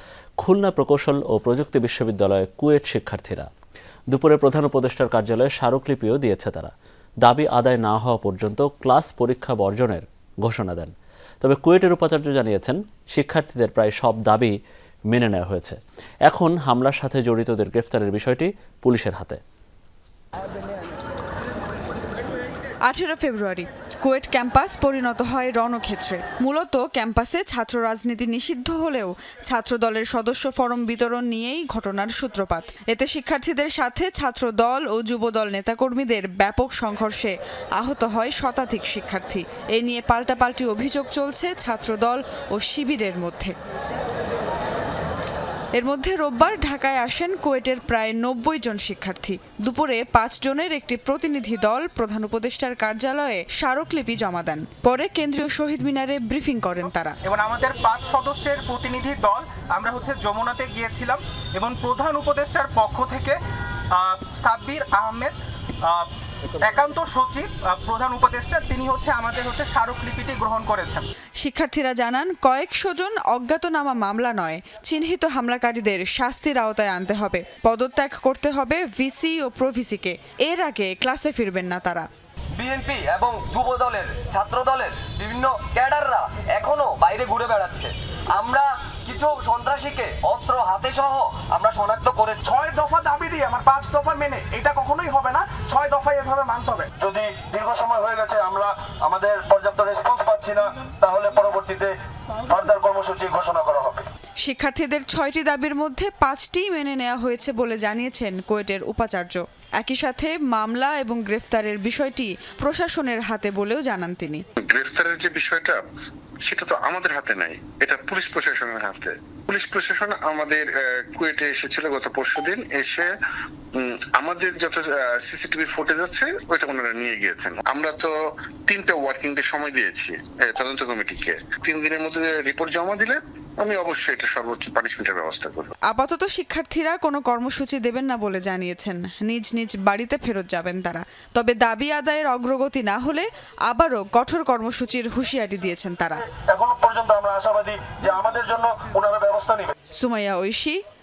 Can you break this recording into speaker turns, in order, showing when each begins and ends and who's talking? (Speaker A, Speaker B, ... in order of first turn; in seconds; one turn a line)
Speaker A: 0.4-3.5
Speaker A: 4.1-14.6
Speaker A: 15.1-19.4
Speaker B: 22.9-43.5
Speaker B: 45.7-57.2
Speaker C: 57.2-63.4
Speaker C: 63.9-66.1
Speaker C: 66.6-71.0
Speaker B: 71.4-82.0
Speaker D: 82.6-92.4
Speaker C: 92.4-96.9
Speaker E: 97.0-104.0
Speaker B: 104.4-114.4
Speaker F: 114.6-115.8
Speaker F: 116.5-123.1
Speaker F: 123.8-128.1
Speaker F: 128.7-135.7
Speaker B: 135.9-146.2
Speaker E: 146.5-149.7
Speaker B: 150.0-150.8